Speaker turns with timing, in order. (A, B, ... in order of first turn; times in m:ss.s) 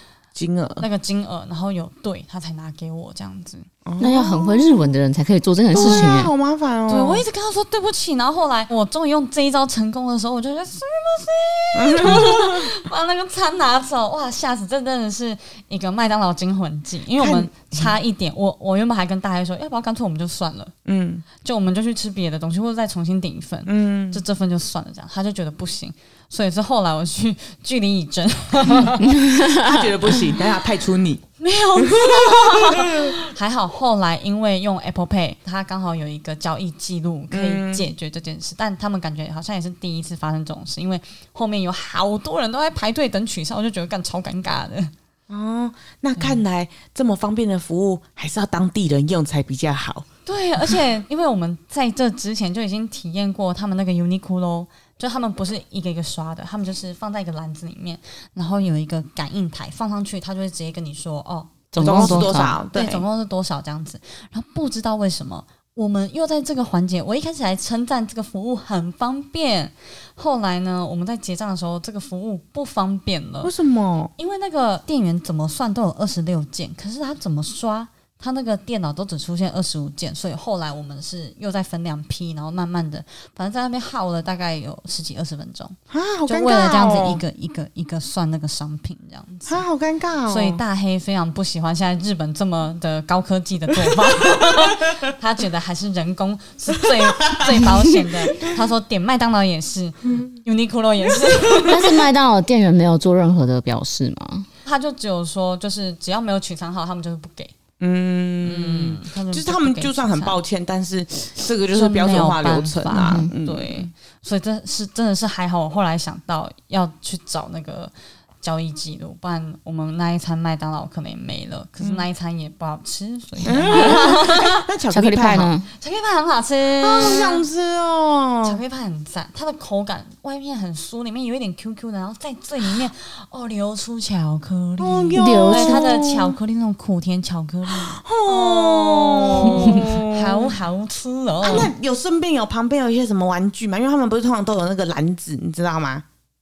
0:00.3-0:00.8 A
0:00.8-0:03.7 B
0:03.8-0:04.9 A
0:04.0-0:06.3 C
0:05.7-0:07.2 A
0:05.8-0:06.1 B
0:06.9-0:20.7 B
0:11.7-0:12.7 A
0:17.2-0:17.9 A
0:20.8-0:21.2 A
0:21.4-0:29.2 B
0:23.6-0:24.2 A
0:29.1-0:29.8 C
0:29.5-0:33.1 A
0:31.4-0:44.9 B
0:37.3-0:37.9 A
0:45.3-0:50.1 A
0:50.2-1:13.5 B
1:01.7-1:02.6 C
1:01.8-1:03.0 A
1:13.4-1:14.1 A
1:14.2-1:25.8 B
1:25.9-1:27.2 A
1:26.3-1:29.6 B
1:29.5-1:30.6 A
1:30.3-1:41.9 B
1:37.0-1:37.6 A
1:41.2-1:41.8 A
1:41.7-1:44.5 C
1:44.6-1:47.5 B
1:47.8-1:53.9 A
1:48.4-1:50.4 B
1:51.7-2:04.6 B
1:53.0-1:53.3 C
2:01.8-2:02.0 A
2:03.4-2:05.5 A
2:04.9-2:05.7 C
2:05.8-2:07.4 B
2:06.8-2:08.6 A
2:08.4-2:21.7 B
2:14.8-2:16.3 A
2:15.2-2:16.0 C
2:17.7-2:20.5 A
2:21.4-2:26.0 A